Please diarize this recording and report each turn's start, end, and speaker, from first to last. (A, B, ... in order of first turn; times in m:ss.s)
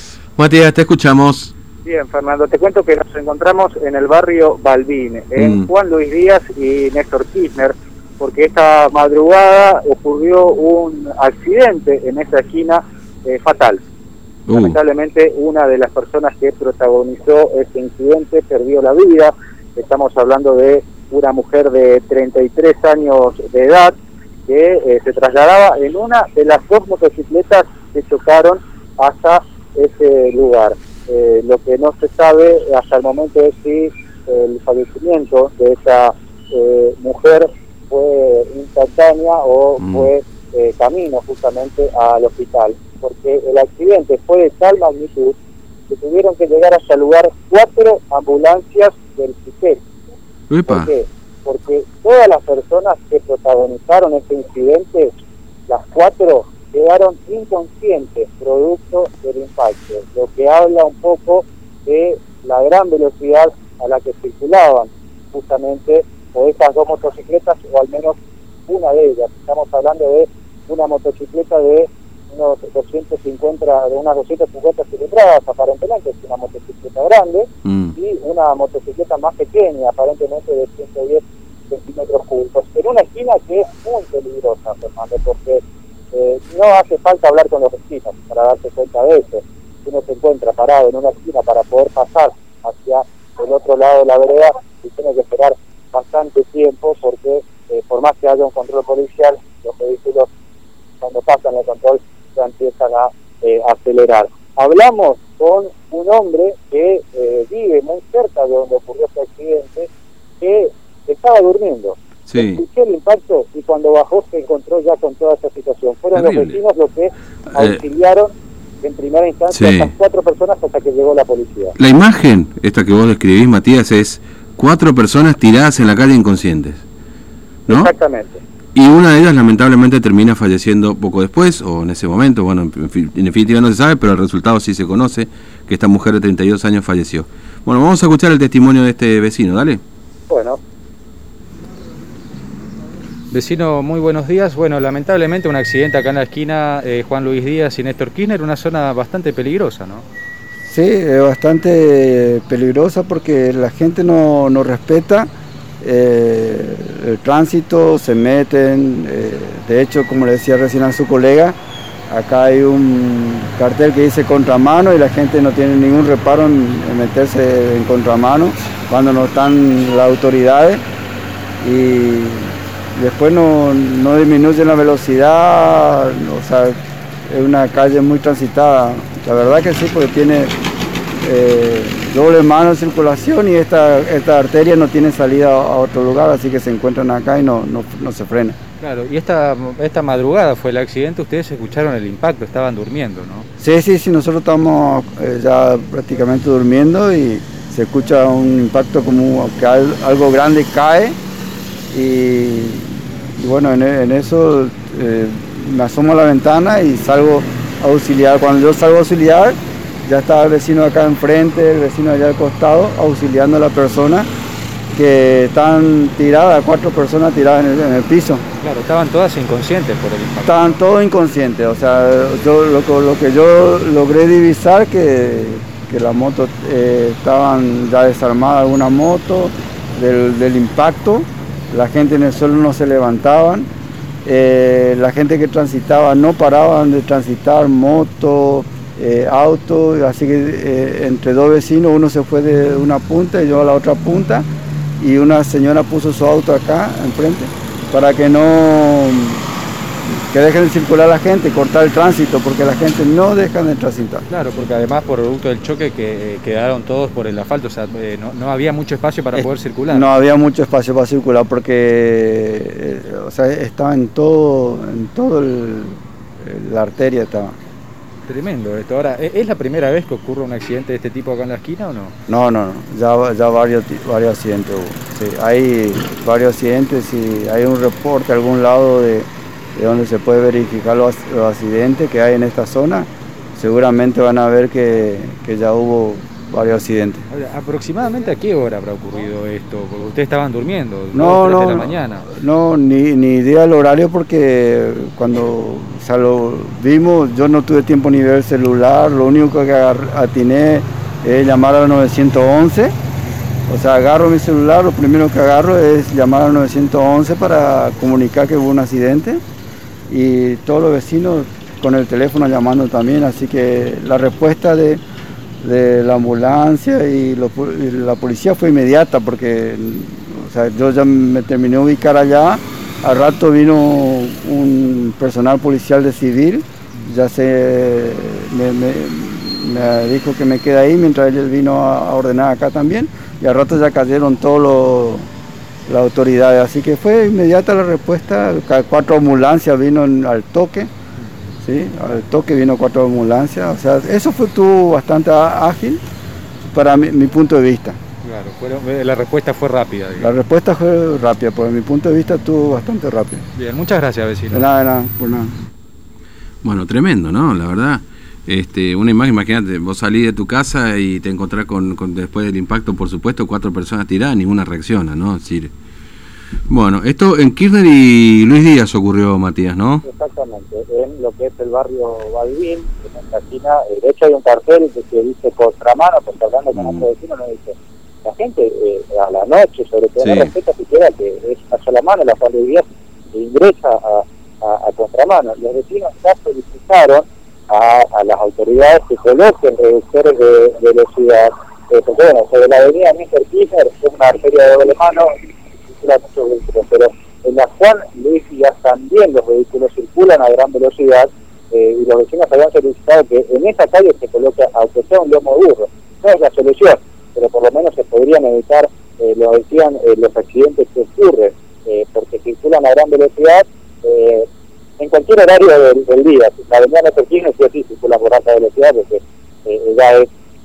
0:00.4-0:01.5 A
0:01.8-0:13.8 B
0:05.4-0:05.7 A
0:14.5-0:14.8 A
0:14.5-0:23.9 B
0:24.5-0:45.4 B
0:39.8-0:40.1 A
0:45.9-0:49.8 B
0:50.5-0:50.9 A
0:50.7-0:55.1 B
0:55.7-1:08.2 B
1:08.7-1:25.6 B
1:17.6-1:18.0 A
1:26.1-1:40.3 B
1:41.0-1:49.9 B
1:50.4-1:58.3 B
1:52.3-1:52.6 A
1:56.2-1:56.6 A
1:58.8-2:01.8 B
1:59.5-1:59.9 A
2:01.8-2:06.8 A
2:07.7-2:08.4 B
2:08.8-2:19.8 A
2:20.3-2:20.6 B
2:23.3-2:30.0 C
2:30.7-2:35.3 D
2:35.8-2:41.6 D
2:42.1-2:50.8 D
2:51.6-3:00.5 D
3:01.2-3:08.6 D
3:08.8-3:13.5 C
3:13.6-3:21.2 D
3:21.9-3:34.3 D
3:34.9-3:38.4 D
3:38.6-3:40.8 C
3:40.4-3:53.7 D
3:54.2-4:04.5 D
4:05.0-4:09.4 D
4:10.0-4:14.2 D
4:14.3-4:20.1 C
4:19.4-4:27.6 D
4:28.3-4:32.2 C
4:32.3-4:47.2 D
4:47.3-4:52.3 C
4:51.1-5:02.9 D
5:03.7-5:09.4 D
5:10.1-5:15.0 D
5:15.6-5:35.3 D
5:35.9-5:40.9 D
5:41.6-5:46.0 D
5:46.6-5:48.0 D
5:48.2-5:50.3 C
5:50.2-5:53.4 D
5:53.6-5:54.6 C
5:54.5-5:55.6 D
5:56.6-6:05.7 A
6:06.7-6:10.0 A
6:10.0-6:35.3 B
6:16.8-6:17.0 A
6:20.2-6:20.5 A
6:36.0-6:54.5 B
6:55.0-7:00.3 B